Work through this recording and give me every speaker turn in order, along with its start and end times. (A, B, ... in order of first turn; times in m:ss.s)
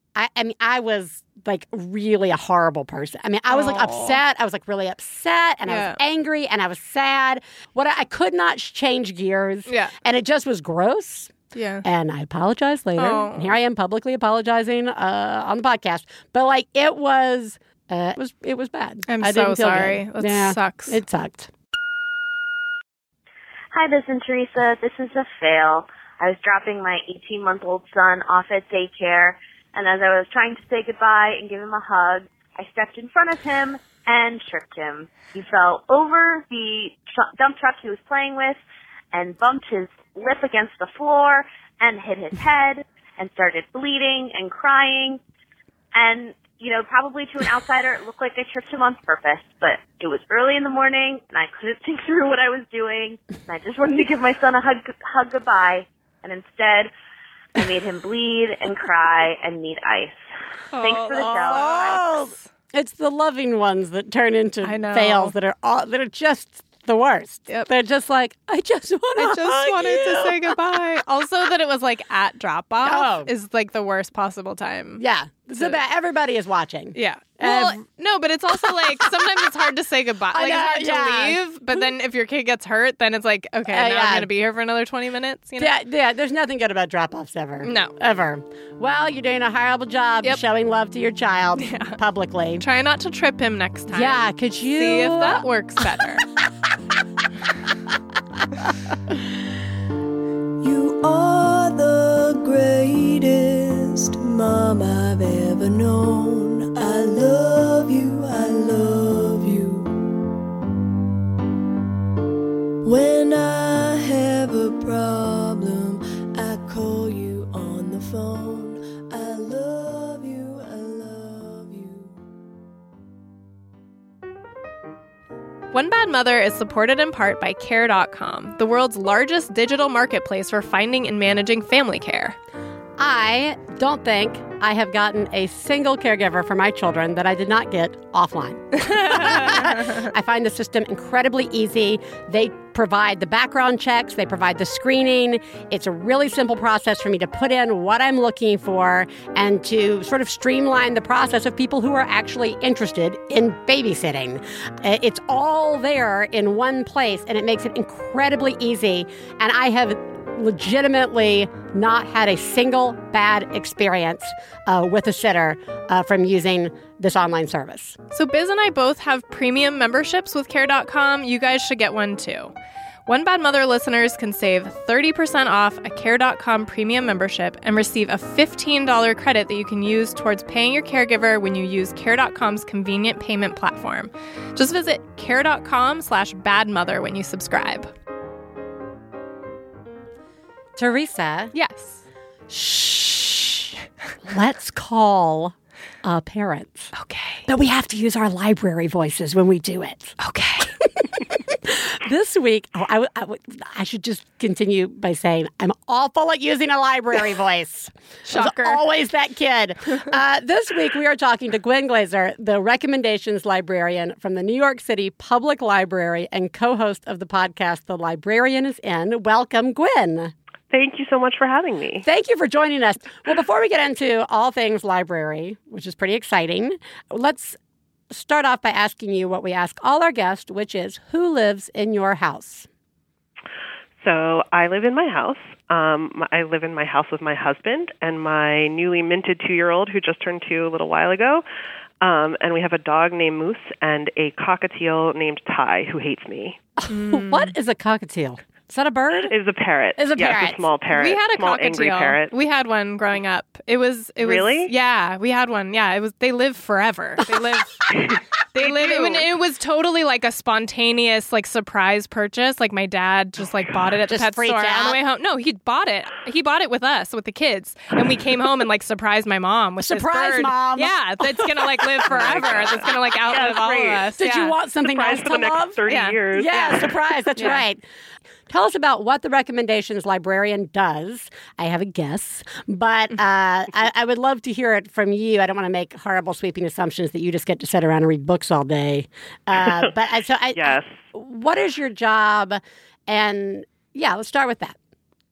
0:00.2-0:21.5 A
0:03.5-0:04.2 B
0:05.7-0:06.0 B
0:09.7-0:09.9 B
0:11.5-0:11.8 B
0:13.0-0:13.6 B
0:19.0-0:21.0 B
0:23.7-0:38.6 C
0:39.1-0:45.2 C
0:45.9-0:56.9 C
0:57.5-1:01.9 C
1:00.7-1:02.4 B
1:01.5-1:10.6 A
1:04.6-1:05.3 B
1:09.2-1:15.0 B
1:12.8-1:13.3 A
1:15.0-1:17.8 A
1:16.9-1:25.7 B
1:18.6-1:19.5 A
1:20.3-1:21.4 A
1:23.7-1:24.3 A
1:25.6-1:32.6 A
1:27.6-1:27.9 B
1:31.6-1:32.0 B
1:32.6-1:36.2 B
1:33.9-1:35.4 A
1:40.6-1:50.1 D
1:52.8-2:02.1 D
2:05.7-2:12.4 B
2:13.0-2:48.0 A
2:18.8-2:20.0 B
2:48.1-2:52.5 B
2:53.1-3:07.9 B
3:10.8-3:11.5 A
3:11.5-3:12.0 B
3:12.5-3:13.7 A
3:14.3-3:16.9 A
3:16.9-3:17.4 B
3:17.4-3:20.2 A
3:20.2-3:20.7 B
3:20.8-3:40.3 A
3:28.2-3:28.8 B
3:40.7-3:42.0 E
3:42.0-3:47.6 A
3:48.1-3:52.7 A
3:54.0-4:01.4 E
4:02.0-4:06.6 E
4:06.8-4:09.3 A
4:06.9-4:07.5 B
4:09.3-4:12.3 E
4:10.0-4:10.6 A
4:10.9-4:34.5 B
4:14.2-4:14.7 E
4:18.0-4:19.2 E
4:24.1-4:25.0 A
4:29.8-4:33.0 A
4:32.1-4:34.1 E
4:34.2-4:35.8 A
4:34.8-4:36.7 E
4:35.9-4:37.6 B
4:36.3-4:37.8 A
4:38.5-4:54.8 A
4:49.6-4:49.9 E
4:50.5-4:51.0 E